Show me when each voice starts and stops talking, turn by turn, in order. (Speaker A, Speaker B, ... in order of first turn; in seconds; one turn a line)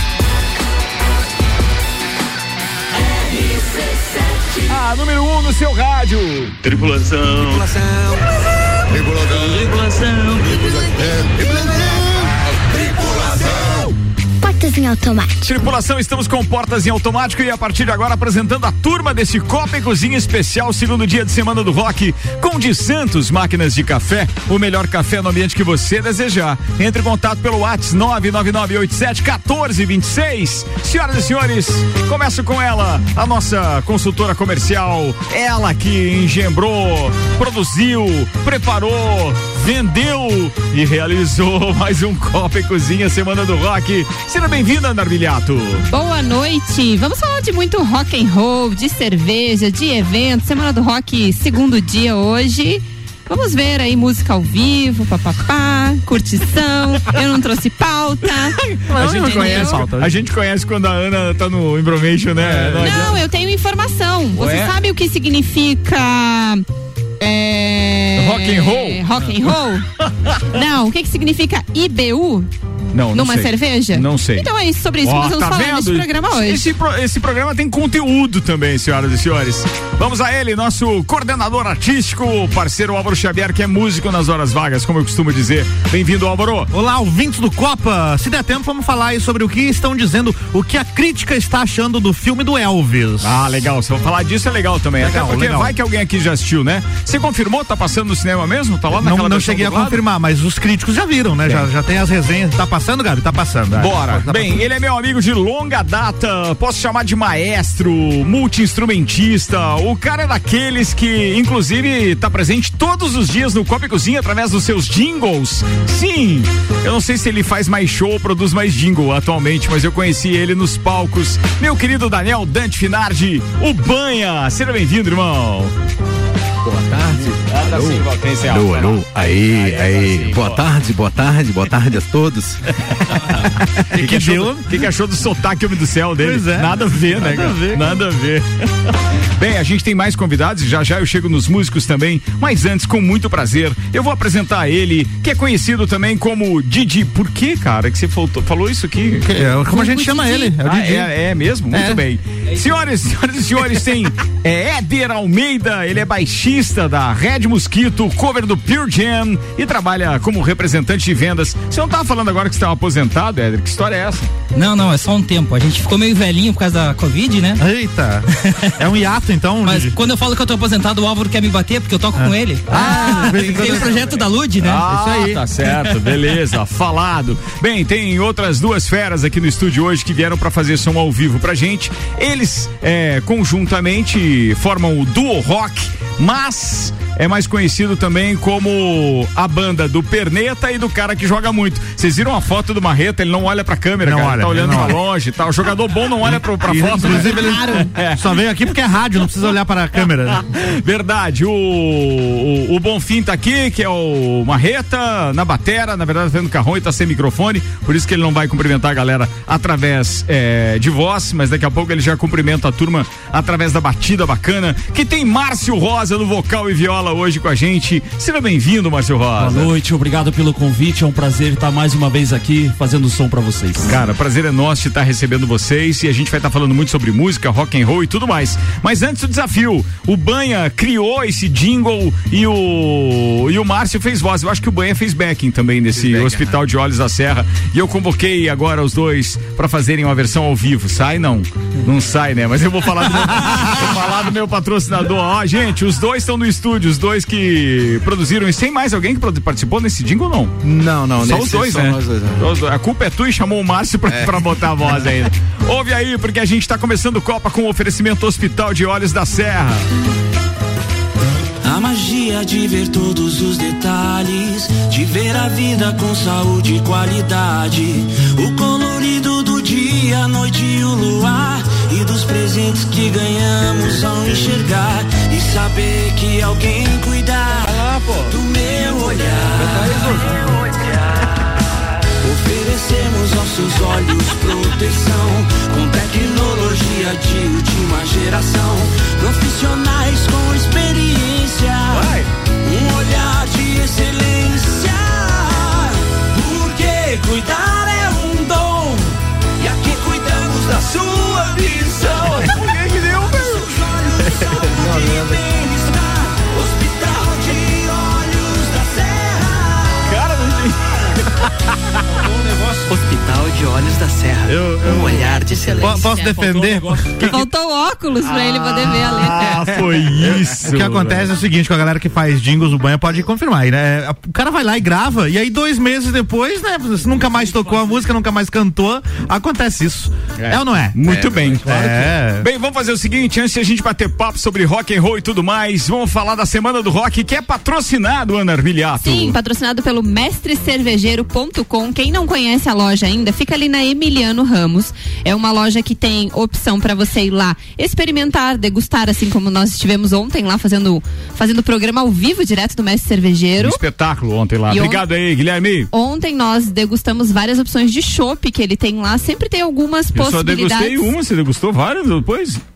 Speaker A: 4.7-7.7
Speaker A: 9.6-10.2
Speaker A: 15.4-45.9
Speaker B: 45.9-59.9
Speaker C: 58.9-60.2
Speaker A: 58.9-63.2
Speaker C: 62.4-63.1
Speaker B: 62.8-66.6
Speaker A: 64.3-64.7
Speaker B: 67.2-69.9
Speaker A: 68.2-69.0
Speaker B: 70.5-72.5
Speaker A: 72.9-74.5
Speaker B: 73.1-76.7
Speaker A: 75.0-86.7
Speaker C: 86.7-93.4
Speaker A: 93.2-100.0
Speaker C: 95.0-95.7
Speaker C: 98.9-104.6
Speaker A: 103.7-125.7
Speaker D: 126.6-132.7
Speaker A: 127.3-130.6
Speaker A: 133.3-138.5
Speaker C: 133.9-134.8
Speaker C: 136.2-137.9
Speaker A: 139.4-149.4
Speaker C: 149.2-151.2
Speaker B: 149.7-150.6
Speaker A: 150.6-164.3
Speaker C: 151.7-152.1
Speaker E: 164.5-167.6
Speaker C: 167.6-169.9
Speaker E: 168.3-168.8
Speaker E: 169.6-174.8
Speaker C: 172.2-174.2
Speaker A: 174.6-198.4
Speaker C: 174.8-175.9
Speaker C: 194.0-195.0
Speaker C: 196.3-200.4
Speaker B: 197.0-197.9
Speaker A: 200.5-219.7
Speaker F: 219.4-224.0
Speaker A: 223.9-250.6
Speaker D: 235.9-236.6
Speaker D: 250.6-252.5
Speaker A: 251.2-259.9
Speaker D: 254.1-254.4
Speaker G: 261.6-281.3
Speaker G: 282.2-302.6
Speaker A: 291.9-292.3
Speaker A: 302.0-303.7
Speaker G: 303.6-310.1
Speaker D: 304.7-305.3
Speaker A: 310.1-310.9
Speaker C: 314.5-315.2
Speaker G: 315.3-316.8
Speaker C: 315.8-317.1
Speaker F: 315.8-316.7
Speaker A: 317.2-317.4
Speaker B: 317.2-319.6
Speaker A: 318.3-321.3
Speaker C: 320.1-332.5
Speaker A: 330.4-339.4
Speaker B: 339.0-353.8
Speaker A: 353.6-355.9
Speaker B: 354.7-355.1
Speaker B: 355.9-361.1
Speaker A: 360.1-362.6